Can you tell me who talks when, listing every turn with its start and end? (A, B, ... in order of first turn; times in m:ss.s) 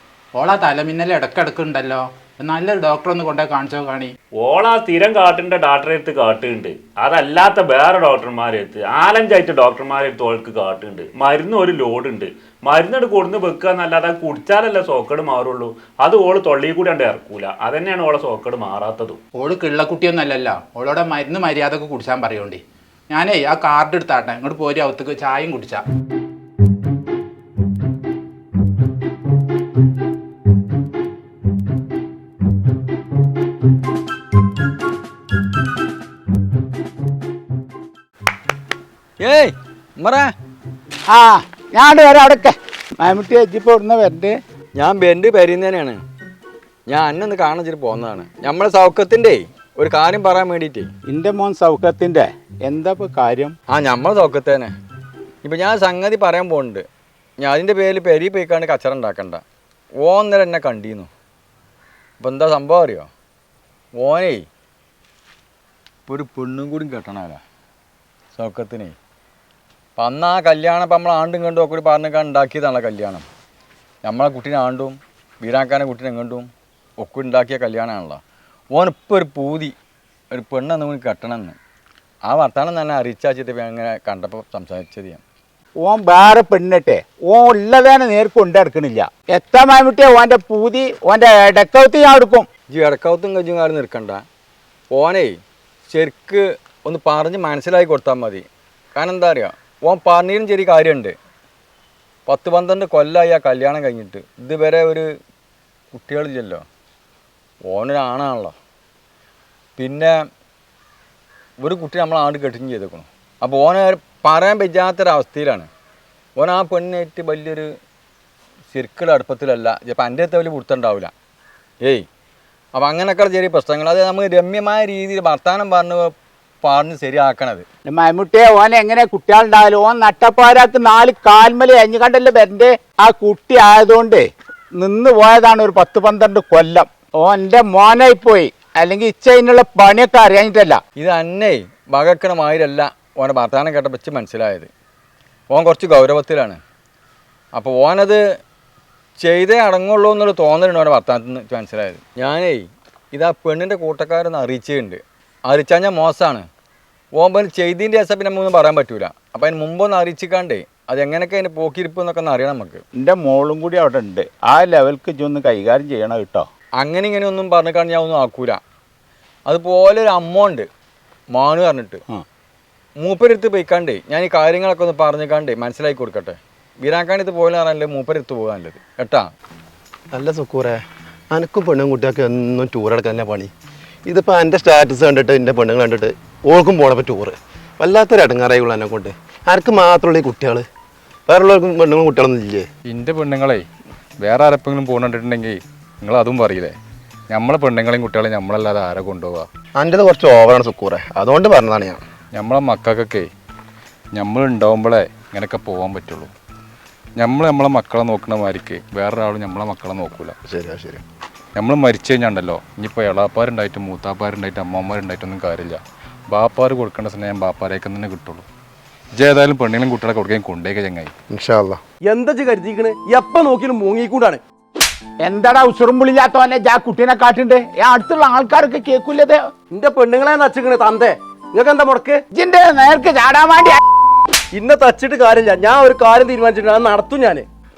0:00.3-0:04.1 A
0:04.4-0:19.2 B
0:19.3-0:25.8 A
0:39.2-0:40.3 C
0:41.1-0:44.3 D
0:44.7-0:46.0 C
0:46.9-0:50.9 C
0:51.1-0:53.5 D
0:53.7-0:54.7 C
0:55.4-0:56.8 C
0:57.4-0:59.4 C
1:00.0-1:01.1 C
1:02.2-1:03.1 C
1:04.0-1:04.4 C
1:06.1-1:07.4 C
1:08.3-1:08.9 C
1:10.0-1:13.2 C
1:14.0-1:16.5 C
1:17.0-1:18.2 C
1:18.7-1:19.7 C
1:20.3-1:21.6 C
1:22.2-1:25.2 C
1:25.8-1:32.4 D
1:32.7-1:34.2 C
1:34.9-1:35.4 C
1:35.9-1:38.4 C
1:39.0-1:41.1 C
1:42.3-1:45.1 C
1:45.9-1:46.6 C
1:47.7-1:48.5 C
1:49.8-1:50.1 C
1:51.6-1:55.7 C
1:56.4-1:57.7 C
1:58.7-2:01.1 C
2:02.7-2:06.1 C
2:06.6-2:07.6 C
2:07.9-2:14.2 D
2:14.8-2:20.8 D
2:21.0-2:24.7 C
2:25.5-2:26.6 C
2:27.5-2:28.2 C
2:29.2-2:36.5 C
2:37.1-2:42.8 C
2:43.0-2:46.4 D
2:46.8-2:48.6 C
2:49.5-2:50.7 C
2:51.3-2:52.0 C
2:53.0-2:59.3 C
3:00.1-3:00.8 E
3:01.3-3:03.5 E
3:04.1-3:10.6 E
3:11.3-3:12.7 E
3:12.9-3:13.6 F
3:14.2-3:16.7 F
3:17.3-3:19.5 F
3:19.8-3:22.0 E
3:22.3-3:23.3 F
3:24.1-3:26.3 F
3:27.2-3:30.4 F
3:30.5-3:31.0 E
3:31.6-3:38.4 F
3:39.2-3:41.1 F
3:41.3-3:41.8 E
3:42.1-3:44.4 G
3:45.2-3:49.4 D
3:49.7-3:52.2 G
3:52.3-3:53.8 D
3:54.5-3:57.4 G